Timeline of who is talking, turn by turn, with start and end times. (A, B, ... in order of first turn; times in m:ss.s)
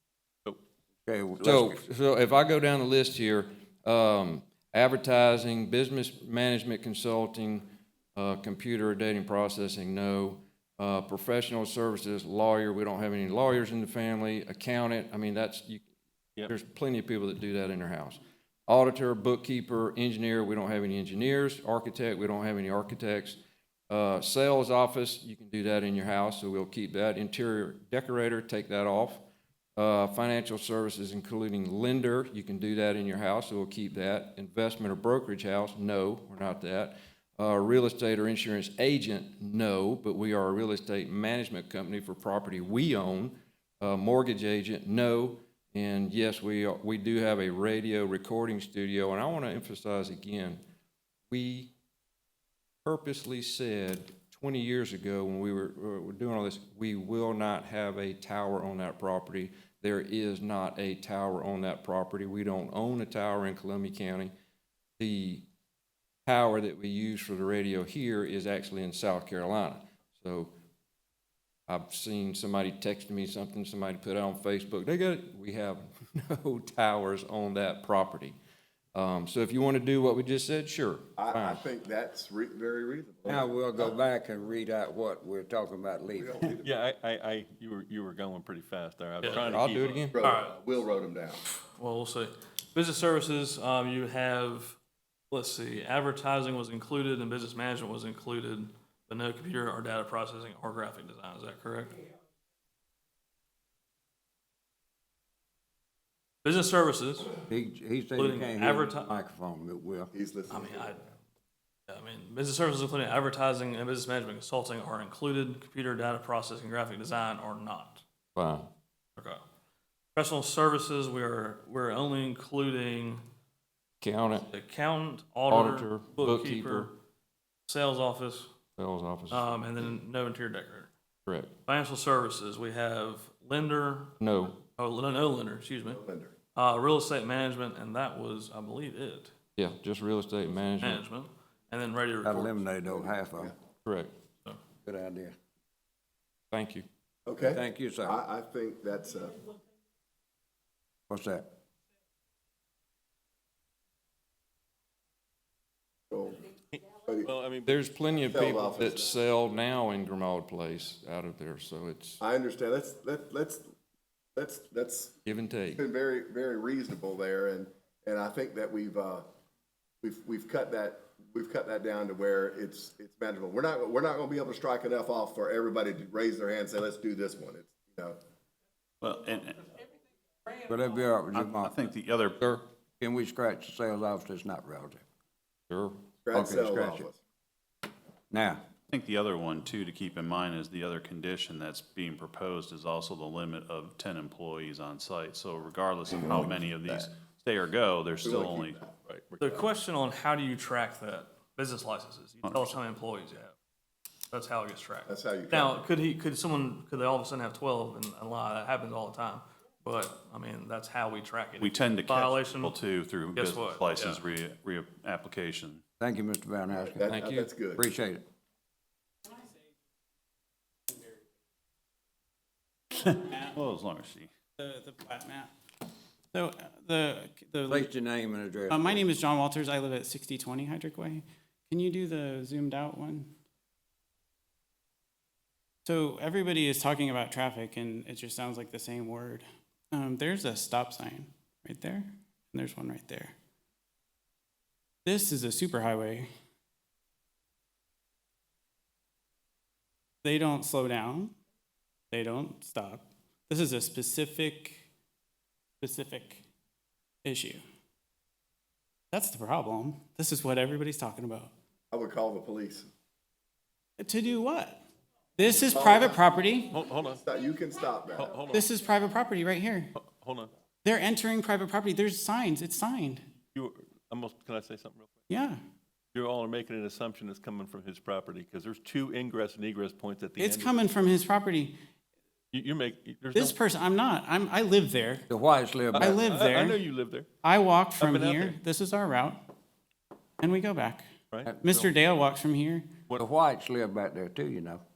0:01.0-0:01.8 A
0:01.4-0:15.8 B
0:16.5-0:23.4 B
0:23.9-0:29.2 B
0:29.8-0:50.6 B
0:51.3-0:51.7 B
0:52.8-1:04.3 B
1:05.0-1:05.4 B
1:06.2-1:10.5 B
1:11.7-1:18.4 B
1:18.9-1:21.6 B
1:21.2-1:23.9 C
1:23.2-1:26.5 A
1:26.1-1:26.8 C
1:26.5-1:30.1 D
1:29.2-1:29.6 E
1:29.5-1:30.1 B
1:30.1-1:31.4 C
1:30.2-1:30.5 E
1:31.7-1:34.8 E
1:35.3-1:42.0 E
1:46.4-1:47.3 E
1:47.5-1:50.1 A
1:48.1-1:49.1 E
1:50.1-1:51.0 C
1:50.5-1:51.0 E
1:51.9-1:58.0 E
1:58.4-1:58.7 B
1:59.2-1:59.4 E
2:00.1-2:03.2 E
2:04.0-2:04.5 B
2:04.5-2:07.0 E
2:05.5-2:06.9 B
2:07.7-2:08.5 E
2:08.8-2:09.5 B
2:09.3-2:10.9 E
2:11.7-2:16.0 E
2:14.2-2:14.6 B
2:15.8-2:16.3 C
2:16.5-2:19.3 E
2:19.6-2:21.0 B
2:20.8-2:22.6 E
2:22.2-2:23.5 A
2:22.8-2:23.5 C
2:23.8-2:24.1 B
2:24.8-2:25.3 A
2:26.5-2:26.8 B
2:27.2-2:29.4 C
2:27.4-2:28.2 A
2:31.1-2:31.4 A
2:36.1-2:36.4 C
2:36.7-2:37.8 D
2:37.6-2:42.2 B
2:38.2-2:39.2 C
2:42.2-2:43.6 C
2:44.3-2:45.1 C
2:45.2-2:45.8 B
2:45.7-2:49.2 C
2:50.0-2:58.2 C
2:59.0-2:59.7 F
3:00.7-3:01.8 A
3:01.3-3:02.4 F
3:03.0-3:05.0 A
3:05.7-3:06.0 B
3:06.2-3:07.2 C
3:06.3-3:07.1 A
3:08.3-3:08.6 A
3:08.9-3:18.8 F
3:18.2-3:19.0 C
3:19.1-3:19.6 D
3:19.4-3:23.5 E
3:22.4-3:22.8 F
3:24.3-3:34.2 E
3:25.1-3:25.8 C
3:31.6-3:35.8 F
3:36.0-3:37.0 A
3:36.7-3:37.8 C
3:37.1-3:37.5 B
3:37.7-3:38.2 A
3:43.0-3:44.3 F
3:44.6-3:45.5 G
3:46.3-3:47.9 G
3:47.7-3:49.1 A
3:48.7-3:53.3 G
3:55.8-4:03.3 G
4:05.0-4:06.3 G
4:10.2-4:11.3 G
4:12.1-4:14.8 G
4:15.8-4:16.4 G
4:17.2-4:17.6 G
4:19.1-4:21.5 G
4:21.9-4:22.9 C
4:24.0-4:24.8 G
4:25.4-4:26.7 G
4:25.7-4:26.6 C
4:26.7-4:27.2 D
4:27.2-4:28.4 C
4:28.1-4:28.7 D
4:28.5-4:29.9 G
4:29.9-4:30.5 D
4:30.8-4:33.2 G
4:33.5-4:35.2 D
4:35.3-4:35.6 G
4:36.1-4:40.8 D
4:40.4-4:41.8 G
4:42.5-4:43.6 D
4:43.3-4:45.2 G
4:45.3-4:46.2 A
4:45.9-4:46.8 G
4:46.0-4:47.3 D
4:47.4-4:49.4 G
4:48.0-4:48.6 D
4:50.4-4:51.1 G
4:51.3-4:51.9 D
4:51.6-4:52.9 G
4:53.1-4:54.8 A